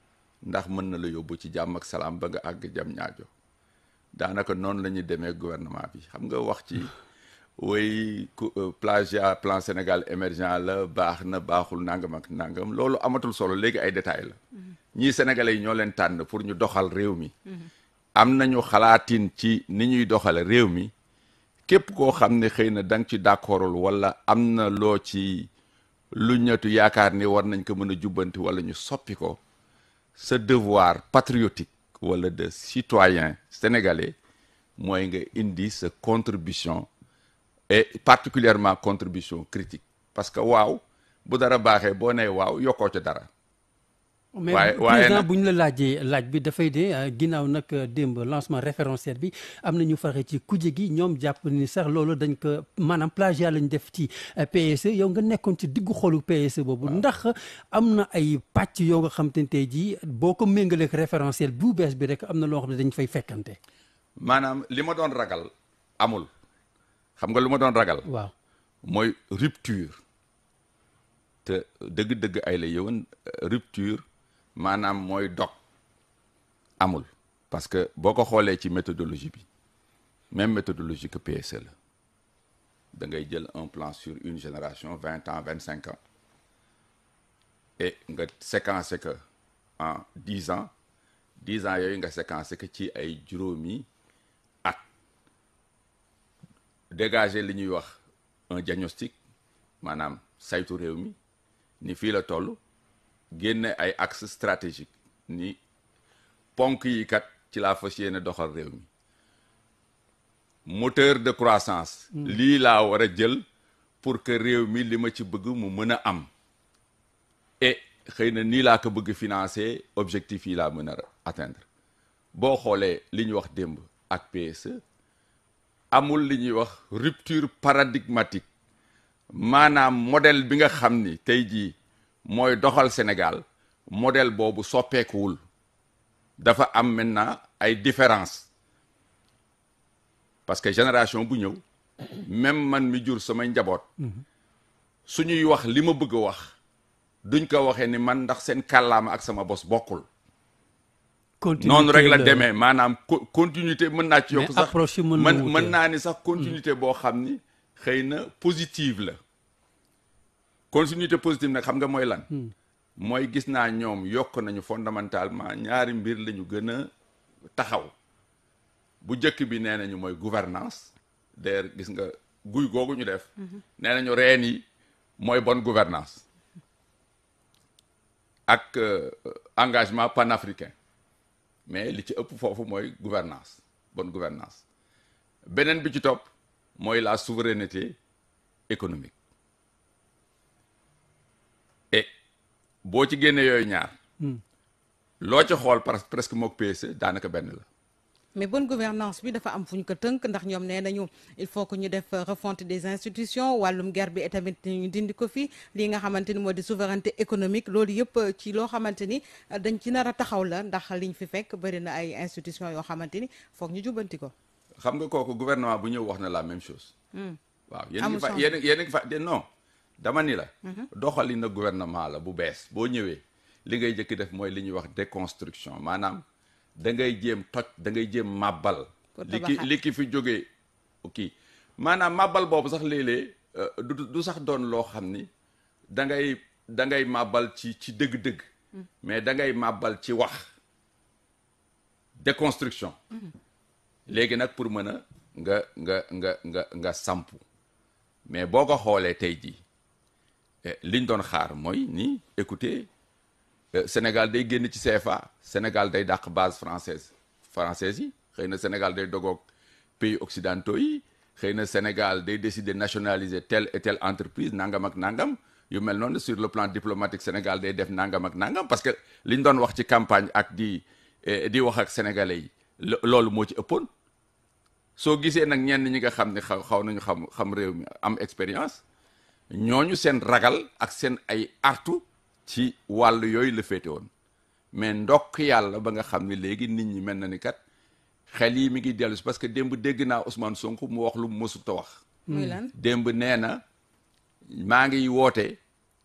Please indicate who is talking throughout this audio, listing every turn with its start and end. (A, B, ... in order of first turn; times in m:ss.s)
0:00.4-0:03.3 A
0:04.1-0:06.9 A
0:07.6-0:14.4 A
0:14.9-0:17.3 A
0:18.2-0:20.9 A
0:21.7-0:25.5 A
0:26.1-0:29.4 A
0:30.2-0:34.1 A
0:34.8-0:36.9 A
0:37.7-0:43.3 A
0:44.3-1:03.6 B
0:44.5-0:45.3 A
1:04.2-1:06.3 A
1:07.2-1:08.0 A
1:08.0-1:08.3 B
1:08.8-1:10.0 A
1:11.4-1:14.0 A
1:14.6-1:15.6 A
1:16.8-1:19.4 A
1:20.3-1:21.7 A
1:22.9-1:26.0 A
1:27.8-1:29.2 A
1:29.8-1:30.7 A
1:31.4-1:33.9 A
1:36.9-1:38.0 A
1:38.5-1:39.1 A
1:39.8-1:41.1 A
1:41.8-1:42.6 A
1:43.3-1:45.6 A
1:46.6-1:48.9 A
1:50.6-1:53.4 A
1:54.0-1:56.3 A
1:57.6-2:01.6 A
2:02.3-2:04.8 A
2:05.9-2:08.5 A
2:09.3-2:15.4 A
2:16.4-2:18.5 A
2:20.5-2:21.6 A
2:22.2-2:23.9 A
2:25.1-2:26.5 A
2:27.2-2:30.1 A
2:31.4-2:32.5 B
2:31.6-2:39.2 A
2:34.3-2:35.8 B
2:40.7-2:42.3 A
2:43.0-2:46.9 A
2:47.5-2:47.9 A
2:49.0-2:54.6 A
2:55.2-2:56.2 A
2:58.5-3:00.7 A
3:01.7-3:04.6 A
3:05.4-3:08.0 A
3:08.7-3:09.1 A
3:12.8-3:13.9 A
3:15.2-3:17.6 A
3:18.3-3:34.3 C
3:34.8-3:36.9 A
3:37.7-3:39.4 A
3:38.0-3:38.5 C
3:40.0-3:46.2 A
3:46.8-3:50.5 A
3:49.2-3:49.7 C
3:51.0-3:55.3 A
3:55.9-3:58.4 A
3:59.0-4:00.5 A
4:02.2-4:03.0 A
4:04.1-4:07.4 A
4:08.2-4:09.6 A
4:10.6-4:12.9 A
4:13.7-4:19.4 A
4:20.0-4:33.9 A
4:35.0-4:38.8 A
4:39.5-4:44.1 A
4:44.7-4:47.6 A
4:48.3-4:52.0 A
4:52.3-4:52.6 B
4:52.3-4:52.7 C
4:52.7-4:53.6 A
4:54.5-4:55.6 A